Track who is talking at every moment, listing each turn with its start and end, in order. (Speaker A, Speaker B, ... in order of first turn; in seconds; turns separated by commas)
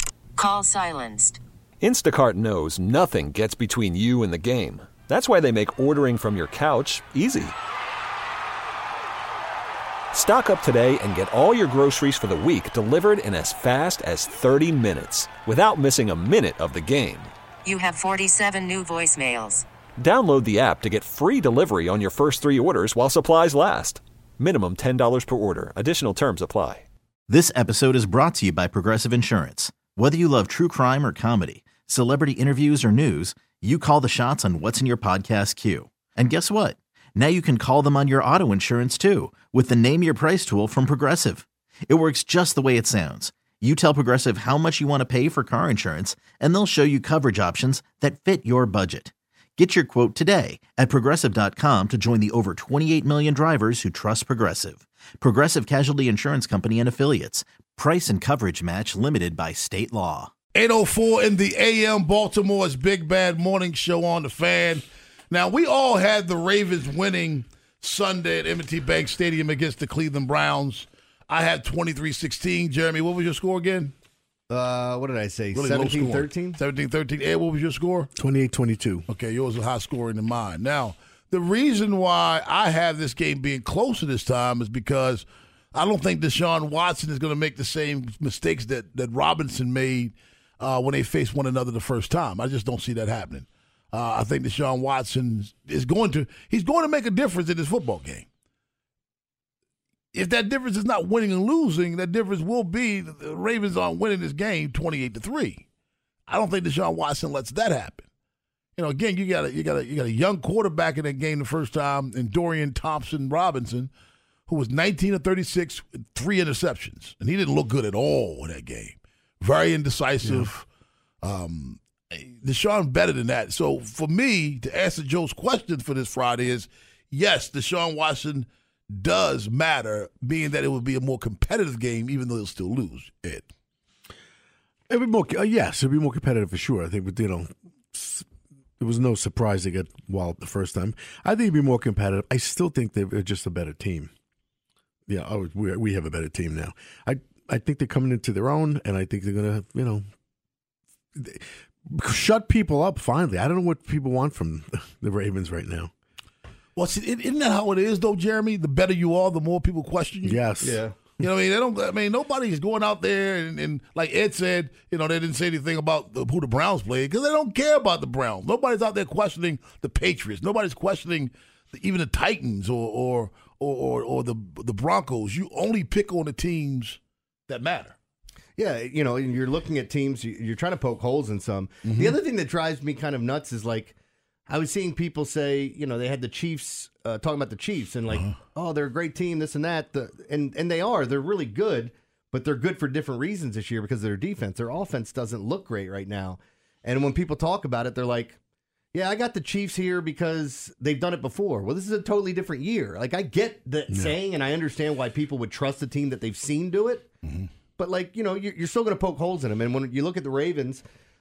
Speaker A: 0.4-1.4, Speaker B: 1.8-7.5, Speaker B: 10.1-17.3, Speaker A: 17.6-19.6, Speaker B: 20.0-26.9, Speaker C: 27.3-60.3, Speaker D: 60.5-73.9, Speaker E: 74.5-76.6, Speaker D: 75.5-78.1, Speaker F: 78.2-79.0, Speaker D: 79.1-98.3, Speaker D: 100.1-105.7, Speaker D: 106.3-108.0, Speaker D: 108.8-113.9, Speaker D: 114.5-120.7, Speaker F: 120.2-120.5, Speaker D: 121.2-133.5, Speaker F: 134.9-138.3, Speaker F: 138.8-144.1, Speaker F: 145.1-150.1, Speaker F: 151.2-155.9, Speaker D: 156.8-160.4, Speaker F: 160.2-160.8, Speaker E: 160.6-160.9, Speaker D: 161.2-178.0, Speaker E: 178.6-183.9, Speaker D: 181.9-182.2, Speaker E: 184.5-198.4, Speaker D: 188.1-188.3, Speaker E: 198.9-207.1, Speaker F: 203.9-204.2, Speaker D: 207.2-207.5, Speaker E: 207.8-210.8